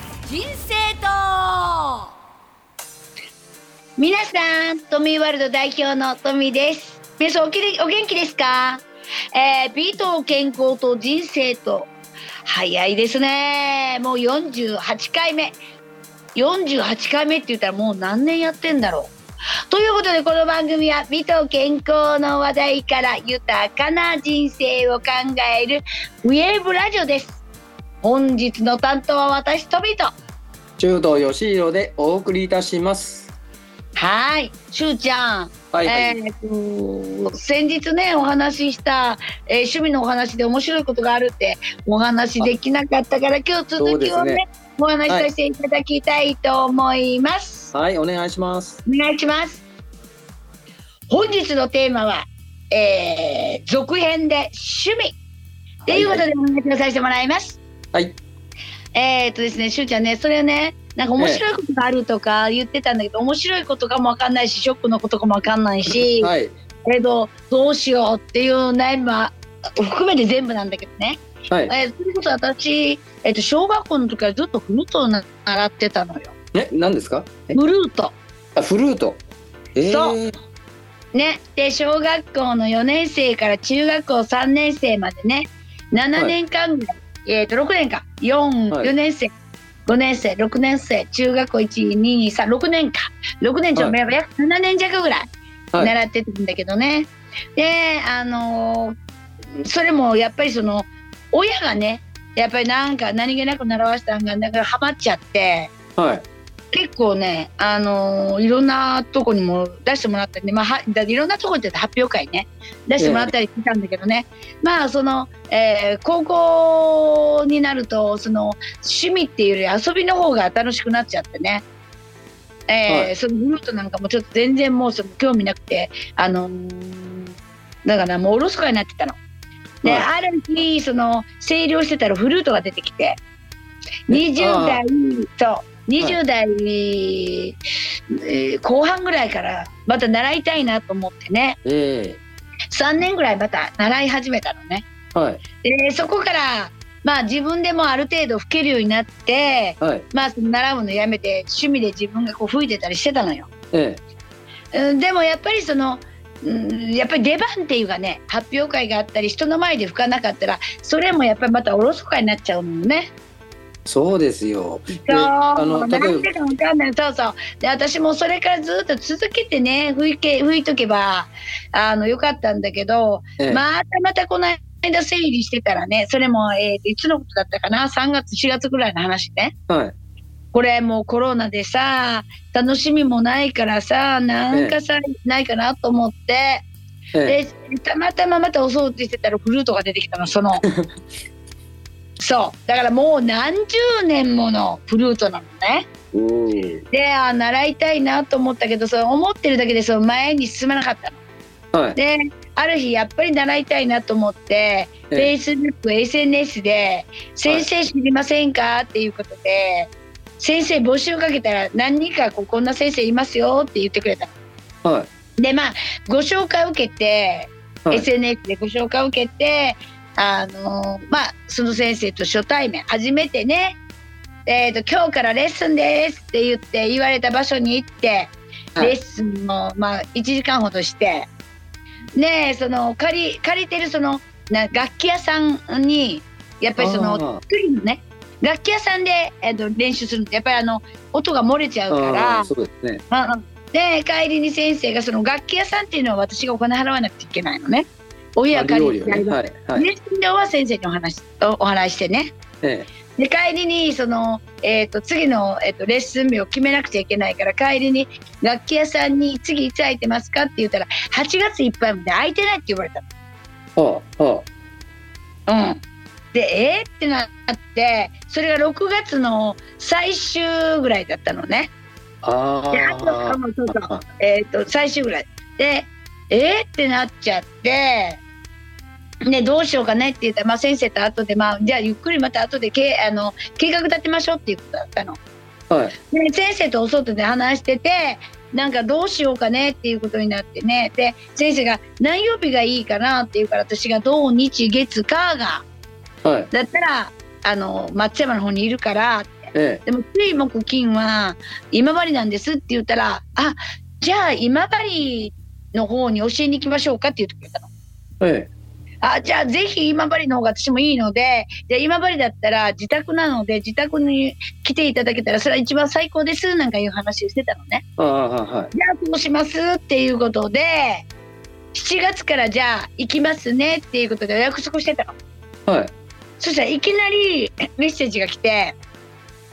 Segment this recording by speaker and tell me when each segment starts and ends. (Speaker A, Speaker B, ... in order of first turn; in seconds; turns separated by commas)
Speaker A: 0.2-2.1, Speaker A: 4.0-11.9, Speaker A: 12.5-15.6, Speaker A: 16.3-19.1, Speaker A: 19.7-27.4, Speaker A: 28.0-30.1, Speaker B: 30.8-33.3, Speaker A: 34.0-47.7, Speaker B: 35.7-36.1, Speaker B: 43.8-44.4, Speaker B: 47.7-48.8, Speaker A: 48.9-49.6, Speaker A: 51.1-55.2, Speaker B: 55.9-56.2, Speaker A: 55.9-57.6, Speaker A: 58.9-66.3, Speaker B: 66.0-66.5, Speaker A: 66.8-76.3, Speaker B: 76.5-77.6, Speaker A: 77.5-78.2, Speaker B: 78.5-79.2, Speaker B: 79.8-80.3, Speaker A: 79.8-80.2, Speaker A: 81.1-89.3, Speaker A: 89.8-98.9, Speaker A: 99.6-105.7, Speaker B: 106.0-106.2, Speaker A: 106.7-121.6, Speaker B: 113.0-113.3, Speaker A: 122.7-127.3, Speaker A: 127.8-129.2, Speaker A: 129.8-133.2, Speaker A: 134.1-137.6, Speaker B: 134.1-134.8, Speaker A: 138.1-141.6, Speaker B: 141.6-142.2, Speaker A: 142.7-144.8, Speaker B: 145.1-145.4, Speaker A: 145.6-153.5, Speaker B: 153.7-154.0, Speaker A: 154.7-163.1, Speaker B: 163.8-166.3, Speaker A: 165.1-179.5, Speaker B: 179.7-179.9, Speaker A: 180.5-186.6, Speaker A: 187.2-190.6, Speaker A: 192.2-195.8, Speaker B: 196.1-196.8, Speaker A: 196.9-201.2, Speaker A: 201.9-214.3, Speaker B: 214.8-215.1, Speaker A: 215.4-223.8, Speaker A: 224.4-231.3, Speaker A: 232.2-242.5, Speaker B: 236.8-237.4, Speaker B: 241.9-243.0, Speaker A: 243.1-252.3, Speaker B: 248.5-249.8, Speaker B: 252.6-252.9, Speaker A: 253.2-263.1, Speaker B: 263.8-264.4, Speaker A: 265.5-265.8, Speaker A: 266.3-271.7, Speaker B: 272.2-274.0, Speaker A: 272.7-278.2, Speaker A: 279.3-285.2, Speaker A: 286.0-295.6, Speaker B: 296.2-296.5, Speaker A: 296.5-307.7, Speaker B: 299.5-299.8, Speaker B: 308.2-308.5, Speaker A: 309.0-317.8, Speaker B: 318.0-318.7, Speaker A: 318.7-321.1, Speaker A: 321.7-325.1, Speaker B: 325.7-325.9, Speaker A: 326.4-328.8